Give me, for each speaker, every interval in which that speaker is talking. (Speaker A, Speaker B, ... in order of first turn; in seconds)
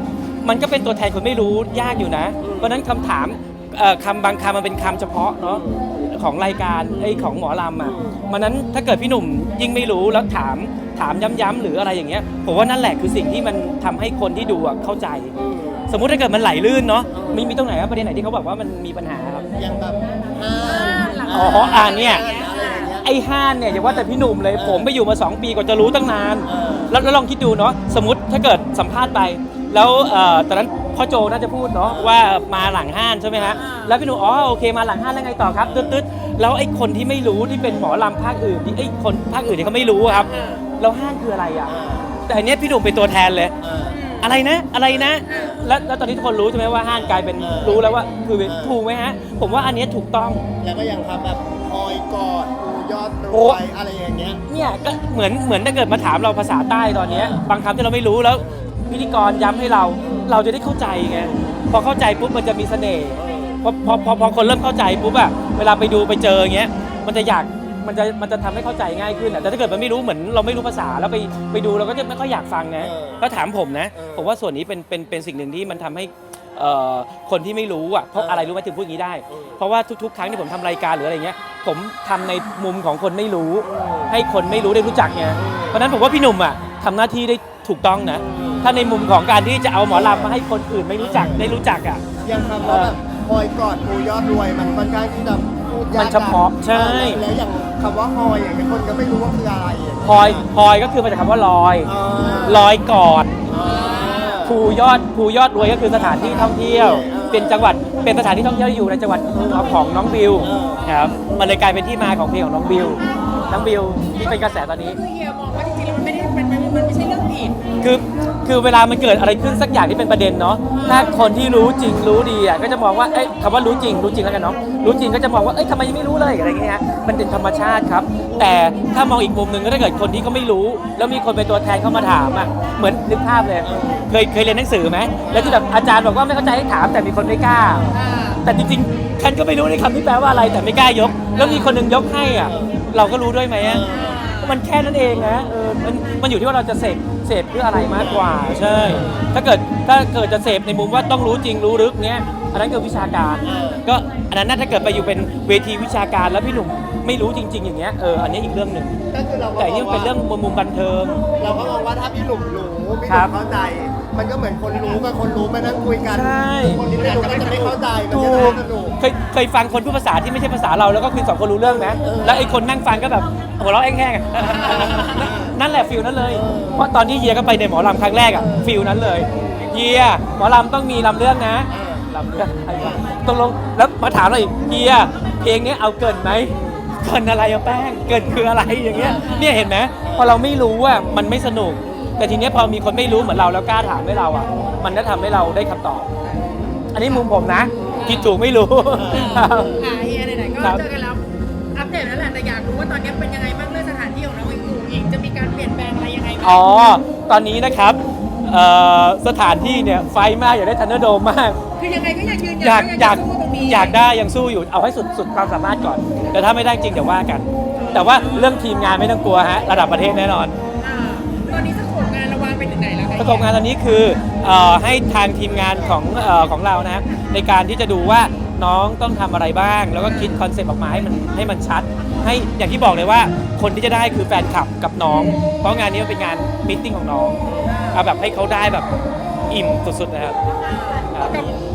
Speaker A: 0.4-15.3, 15.9-19.4, 21.3-22.2, 23.0-41.7, 42.3-43.5, 44.2-50.4, 53.3-53.6, 54.5-92.0, 92.6-93.0, 95.9-97.2, 100.0-101.9, 102.4-103.4, 104.4-115.0, 117.8-137.9, 138.4-143.8, 144.4-159.0, 159.6-161.2, 163.1-163.3, 166.1-166.8, 168.1-196.1, 196.9-199.8, 200.6-200.8, 206.4-211.6, 212.5-220.6, 223.2-238.9, 239.5-240.4, 241.1-241.5
Speaker B: 2.4-2.8, 5.4-5.8, 6.9-8.2, 15.3-15.9, 17.1-17.5, 19.6-23.1, 23.8-24.9, 26.4-27.0, 31.8-32.2, 33.3-33.6, 35.6-36.0, 41.6-42.2, 43.6-44.0, 44.9-45.4, 46.9-48.8, 50.6-54.4, 57.0-57.4, 58.4-58.8, 60.0-60.3, 61.2-61.6, 63.1-63.6, 72.8-73.3, 73.9-74.3, 78.2-78.5, 79.3-79.6, 83.6-84.1, 85.3-85.8, 88.1-88.8, 89.9-90.4, 91.0-91.6, 92.2-100.5, 101.8-102.7, 103.5-104.6, 105.9-107.8, 110.4-110.8, 133.6-134.1, 137.6-138.0, 142.4-142.8, 143.6-144.2, 147.7-149.3, 153.4-153.8, 159.1-160.1, 161.4-169.0, 171.6-172.5, 174.4-175.6, 176.3-176.9, 178.3-179.7, 181.7-182.1, 182.8-183.0, 186.4-186.9, 190.0-190.4, 191.8-192.1, 194.4-195.0, 197.8-198.1, 198.9-199.9, 225.6-226.0, 237.4-237.7
Speaker C: 20.6-22.9, 33.6-34.0, 40.0-40.6, 43.9-44.3, 45.3-45.6, 92.2-92.7, 102.2-102.7, 103.5-104.5, 110.7-111.2, 112.8-117.6, 120.7-121.2, 135.2-135.7, 137.9-138.4, 141.3-141.8, 143.9-144.6, 167.0-167.6, 172.0-172.6, 174.5-175.0, 188.9-189.6, 196.2-197.3, 197.9-198.4, 199.1-206.7, 211.8-214.0, 217.7-218.7, 220.8-223.6, 230.0-230.4, 237.6-238.1, 240.7-241.5